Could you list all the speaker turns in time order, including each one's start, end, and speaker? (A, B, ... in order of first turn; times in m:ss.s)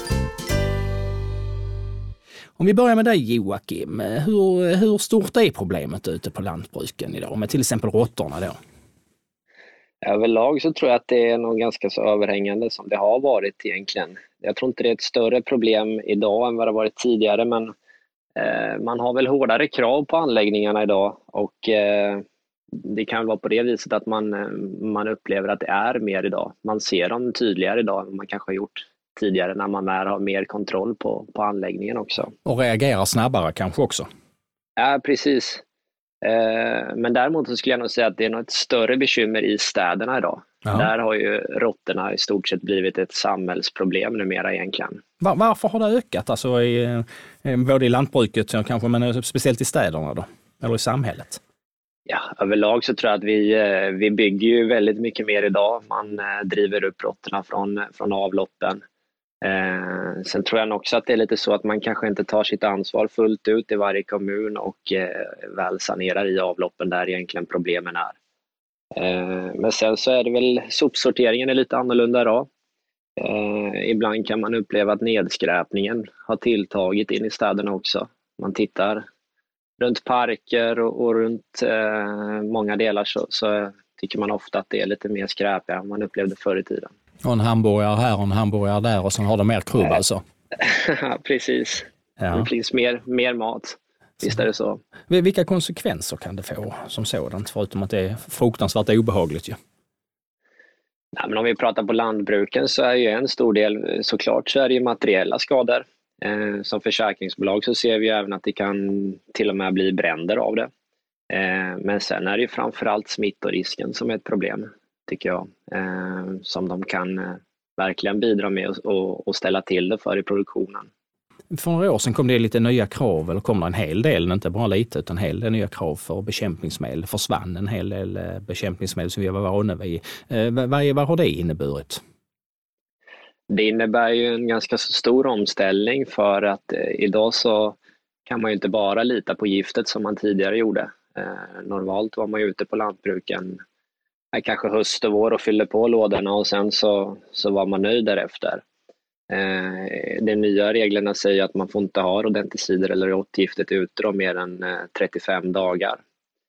0:02.6-0:08.6 A
0:10.0-0:17.7 B
0:18.4-0:32.3 B
0:32.5-0:34.1 A
0:34.8-0:35.6 B
0:36.2-0:45.0 B
0:45.2-0:51.4 A
0:52.1-0:58.8 B
0:59.4-1:08.2 B
1:09.0-1:12.5 B
1:13.2-1:19.0 B
1:19.8-1:26.9 B
1:27.2-1:30.2 A
1:30.6-1:34.8 B
1:32.2-1:32.5 A
1:35.1-1:39.6 A
1:41.2-1:50.7 B
1:51.3-2:00.9 B
2:01.5-2:12.0 A
2:13.5-2:23.6 B
2:24.3-2:28.6 B
2:29.3-2:36.0 B